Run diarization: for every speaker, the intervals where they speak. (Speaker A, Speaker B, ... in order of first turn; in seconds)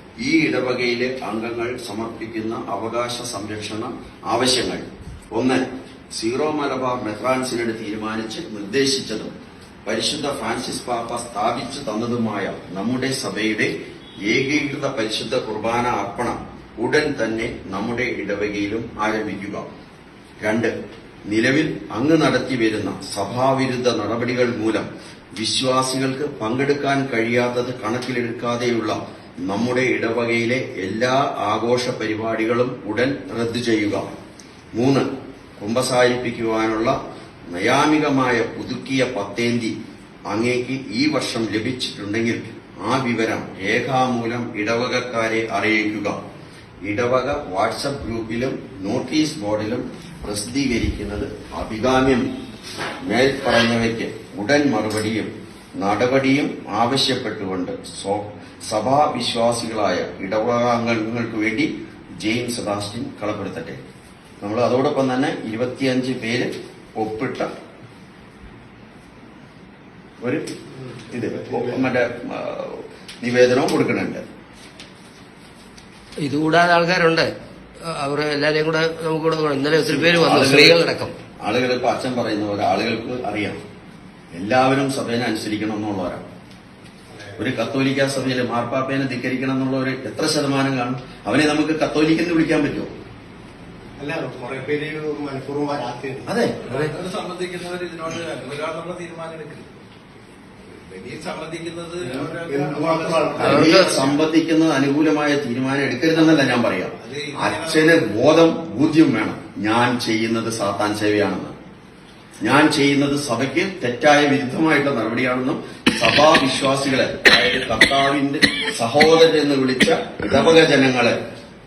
Speaker A: 0.2-9.3, 9.8-13.7, 14.2-19.6, 20.4-20.7, 21.3-34.1, 34.7-37.0, 37.5-39.7, 40.3-46.2, 46.9-52.3, 53.0-61.7, 62.2-63.8, 64.4-67.5, 70.2-70.5, 71.1-74.2, 79.8-80.8, 81.4-83.6, 84.3-86.2, 87.4-92.9, 96.2-96.6, 103.4-111.5, 112.4-121.1
Speaker B: 71.3-71.8, 94.0-96.3, 102.1-103.7
Speaker C: 76.2-77.3, 77.9-81.1, 103.4-104.0
Speaker D: 96.6-99.7, 100.9-104.2, 106.2-108.0